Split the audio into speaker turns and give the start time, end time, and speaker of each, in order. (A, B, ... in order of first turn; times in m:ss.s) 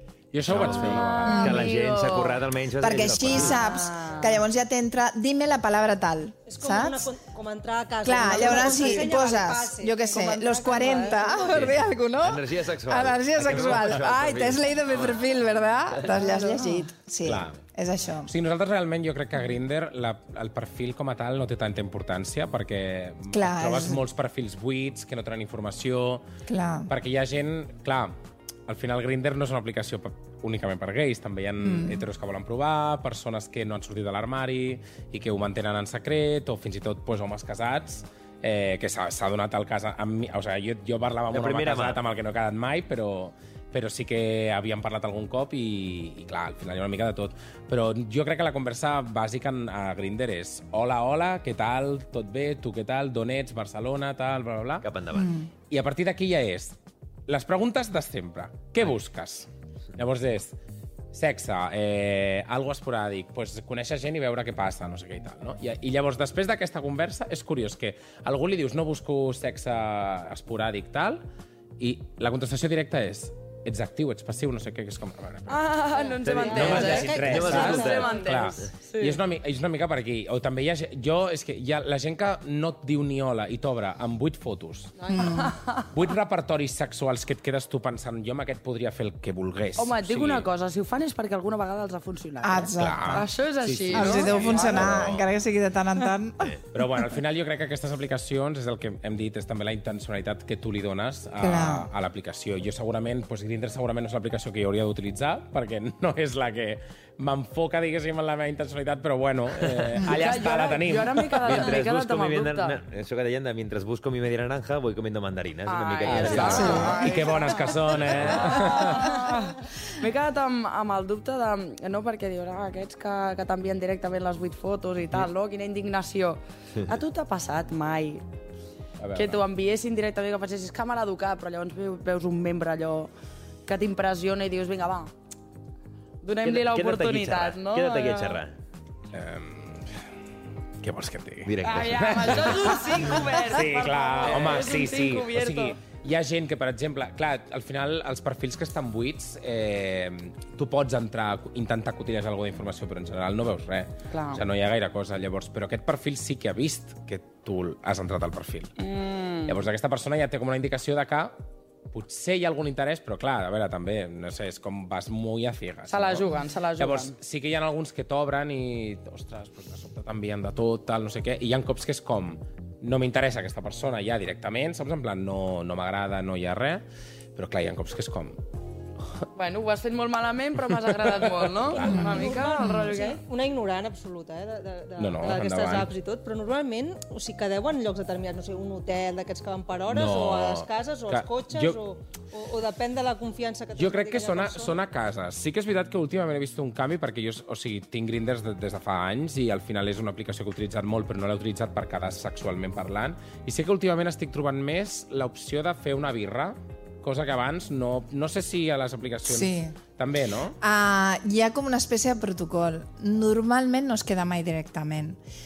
0:00.3-0:01.6 A
0:00.5-0:03.6 B
0:00.6-0:02.5 C
0:01.2-0:01.6 D
0:02.8-0:07.1 D
0:03.6-0:04.3 C
0:03.6-0:04.2 E
0:06.5-0:11.7 E
0:08.0-0:18.3 D
0:08.4-0:08.7 C
0:11.5-0:15.2 B
0:16.1-0:16.8 C
0:17.2-0:17.6 A
0:18.3-0:26.2 A
0:23.3-0:24.0 D
0:26.5-0:26.9 D
0:26.9-0:28.1 A
0:28.7-0:54.9 A
0:31.6-0:32.0 D
0:41.3-0:42.0 B
0:54.8-0:55.4 B
0:55.1-0:55.5 D
0:55.7-0:56.8 A
0:57.3-1:00.6 A
1:01.1-1:11.2 A
1:11.8-1:15.7 A
1:15.5-1:19.2 C
1:15.9-1:18.6 E
1:16.2-1:18.7 B
1:16.5-1:24.9 A
1:25.0-1:25.5 E
1:25.1-1:25.5 D
1:25.9-1:30.5 A
1:29.8-1:34.9 C
1:32.4-1:33.3 D
1:32.8-1:35.2 A
1:33.9-1:36.5 D
1:36.7-1:51.8 A
1:41.4-1:41.9 D
1:49.6-1:50.0 B
1:50.1-1:52.8 C
1:51.4-1:57.1 B
1:55.6-2:08.2 C
1:56.0-1:59.3 A
1:56.4-1:57.1 D
1:58.1-1:58.5 B
2:09.0-2:09.4 A
2:09.1-2:13.1 C
2:13.7-2:15.1 C
2:16.2-2:18.4 C
2:16.4-2:18.6 B
2:19.1-2:20.0 A
2:20.8-2:38.8 A
2:21.4-2:22.6 B
2:21.6-2:25.7 C
2:34.1-2:34.4 C
2:38.8-2:39.5 C
2:39.4-2:41.4 A
2:41.9-2:56.8 A
2:45.9-2:47.1 C
2:57.4-2:58.4 A
2:59.4-3:03.2 C
3:00.9-3:02.2 A
3:01.8-3:02.9 D
3:01.9-3:14.8 E
3:05.0-3:05.9 A
3:09.9-3:11.8 A
3:13.8-3:30.6 A
3:29.3-3:29.8 D
3:30.6-3:35.2 D